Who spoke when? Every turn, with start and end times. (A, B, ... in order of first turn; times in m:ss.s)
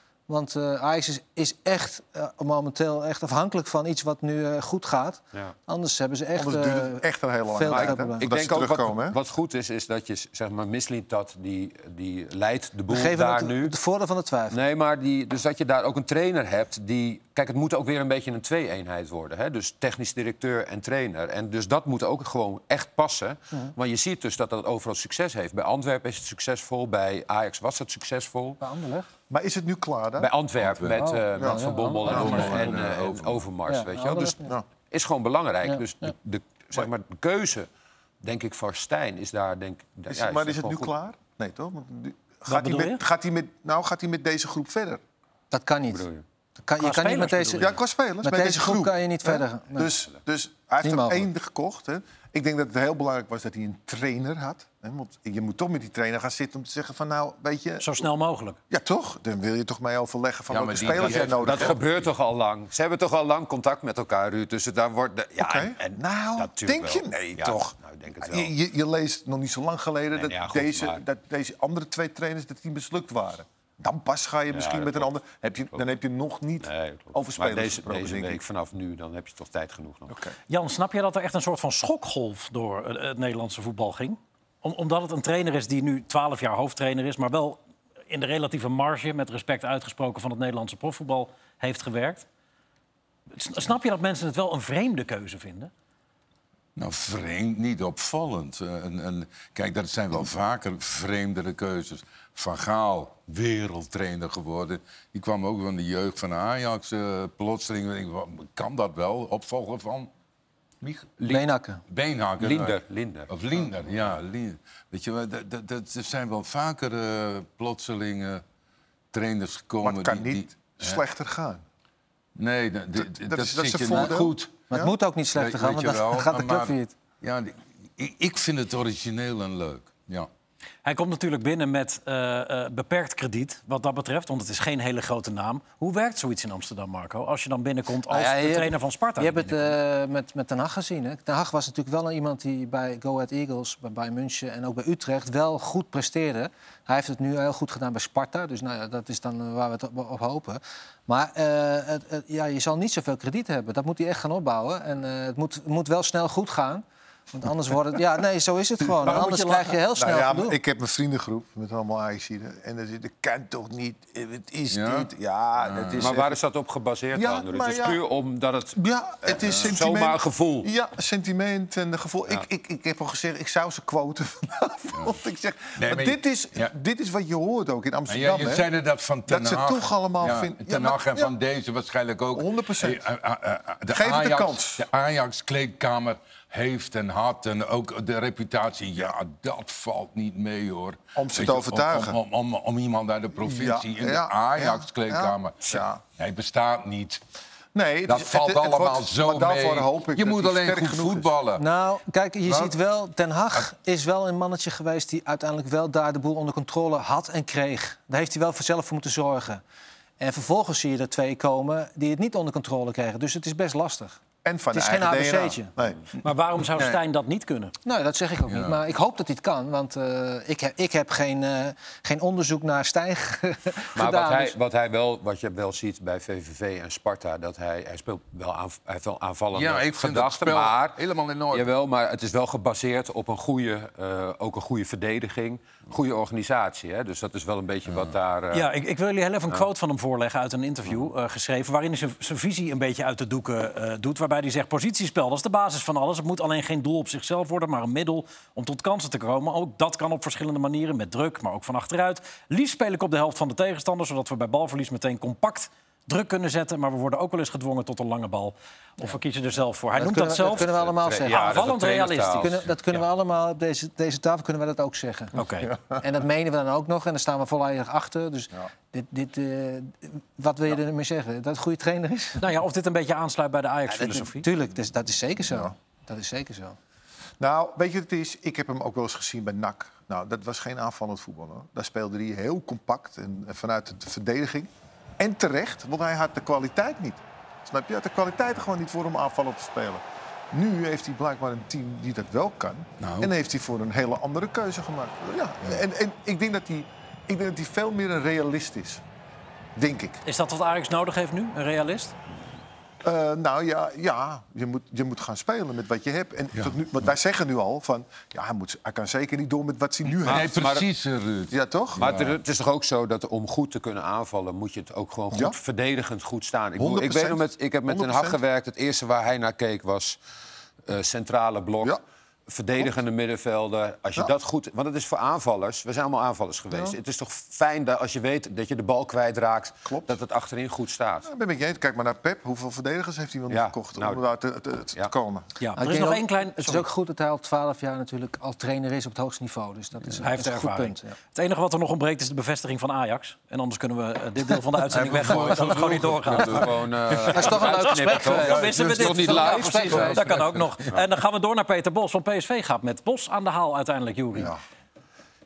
0:00.3-0:08.2 A
0:06.4-0:09.2 B
0:07.7-0:13.8 C
0:12.9-0:14.6 A
0:14.5-0:28.6 C
0:28.6-0:29.1 A
0:29.3-0:30.3 B
0:30.2-0:34.4 C
0:30.6-0:31.1 D
0:31.0-0:32.8 A
0:31.4-0:32.6 B
0:32.0-0:33.5 D
0:33.7-0:34.6 A
0:34.9-0:37.7 C
0:35.7-0:36.1 A
0:38.2-0:40.9 C
0:40.1-0:45.0 B
0:42.5-0:43.0 E
0:45.5-0:46.1 A
0:45.9-0:46.2 C
0:46.6-0:50.0 A
0:46.8-0:47.7 E
0:47.6-0:57.9 B
0:50.8-0:51.3 A
0:57.8-0:58.6 E
0:58.7-1:01.8 B
1:00.5-1:02.0 D
1:00.8-1:08.5 C
1:05.4-1:18.4 B
1:10.1-1:11.0 C
1:14.5-1:15.2 C
1:16.6-1:20.2 C
1:20.1-1:20.4 B
1:20.5-1:27.6 E
1:28.1-1:32.3 E
1:33.3-1:35.7 E
1:36.8-1:50.1 D
1:50.8-1:58.4 D
1:51.3-1:51.8 A
1:52.4-1:53.3 C
1:59.1-2:01.0 D
1:59.8-2:01.6 B
2:02.4-2:04.6 D
2:03.0-2:04.9 B
2:04.7-2:07.0 A
2:05.3-2:10.3 D
2:10.8-2:19.7 E
2:18.1-2:40.6 A
2:39.1-2:39.5 E
2:40.0-2:46.4 B
2:44.7-2:45.1 D
2:45.6-2:46.1 D
2:46.0-2:50.7 C
2:47.1-2:48.0 B
2:48.8-2:58.7 B
2:49.5-2:49.7 D
2:55.8-2:56.7 D
2:58.1-3:17.2 D
2:59.3-3:01.3 B
3:02.3-3:03.0 B
3:03.9-3:04.9 B
3:11.2-3:12.2 B
3:13.4-3:16.0 B
3:17.8-3:21.3 B
3:18.1-3:21.6 D
3:21.6-3:29.6 A
3:30.2-3:34.2 A
3:34.4-3:36.0 B
3:34.7-3:35.7 A
3:36.2-3:37.7 E
3:36.8-3:37.0 D
3:37.8-3:44.6 A
3:38.5-3:38.8 D
3:44.0-3:51.0 C
3:49.5-3:51.7 D
3:51.5-3:58.7 C
3:58.5-4:20.7 E
4:20.0-4:21.6 A
4:20.6-4:22.7 C
4:21.3-4:22.5 E
4:22.4-4:25.4 A
4:25.4-4:25.8 E
4:25.9-4:32.4 A
4:32.4-4:34.5 E
4:34.3-4:36.8 A
4:37.4-4:59.0 B
4:53.0-4:53.3 D
4:59.8-5:00.2 B
5:00.2-5:02.2 E
5:03.0-5:10.7 B
5:10.2-5:12.4 D
5:10.2-5:10.9 C
5:11.5-5:12.1 B
5:12.0-5:20.2 C
5:15.3-5:15.6 B
5:16.8-5:18.4 B
5:20.9-5:31.3 C
5:26.7-5:27.0 B
5:29.9-5:30.2 B
5:31.2-5:35.5 B
5:33.5-5:34.2 C
5:35.6-5:36.9 E
5:35.8-5:41.2 A
5:40.2-5:46.7 E
5:44.9-5:47.6 D
5:46.3-5:50.2 C
5:47.3-5:50.2 A
5:47.6-5:54.6 E
5:48.2-5:51.0 D